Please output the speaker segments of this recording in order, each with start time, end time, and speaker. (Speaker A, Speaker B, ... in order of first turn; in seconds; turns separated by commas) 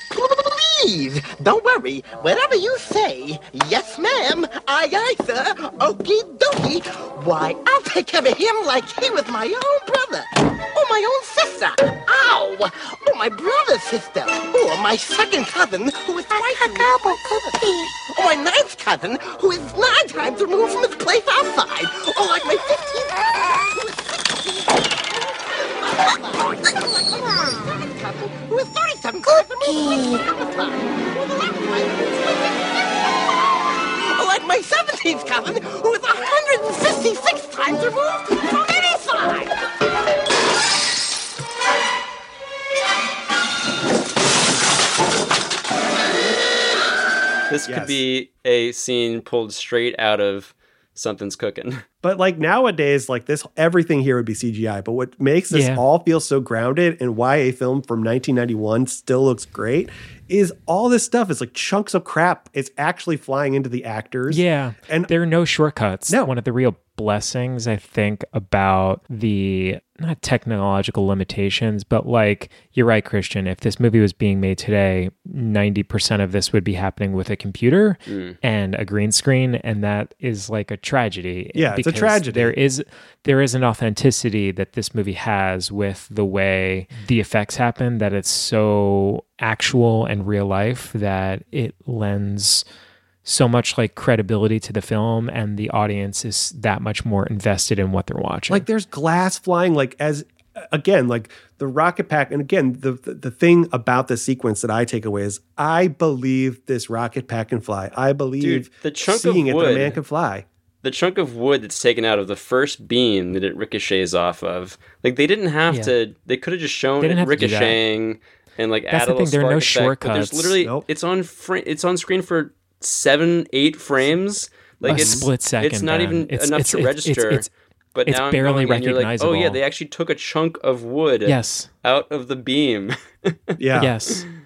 Speaker A: 0.1-39.5, Speaker B: 47.5-51.8, Speaker C: 47.6-48.0, Speaker C: 52.0-65.1, Speaker D: 55.5-55.8, Speaker D: 64.3-92.7, Speaker B: 78.1-78.4, Speaker C: 81.6-82.6, Speaker D: 93.2-98.7, Speaker C: 98.5-110.5, Speaker B: 108.4-110.0, Speaker B: 110.8-133.6, Speaker D: 117.0-117.8, Speaker D: 118.9-120.5, Speaker C: 124.8-125.3, Speaker D: 124.9-127.5, Speaker D: 128.1-129.6, Speaker D: 131.3-131.7, Speaker C: 133.6-134.0, Speaker D: 133.8-134.2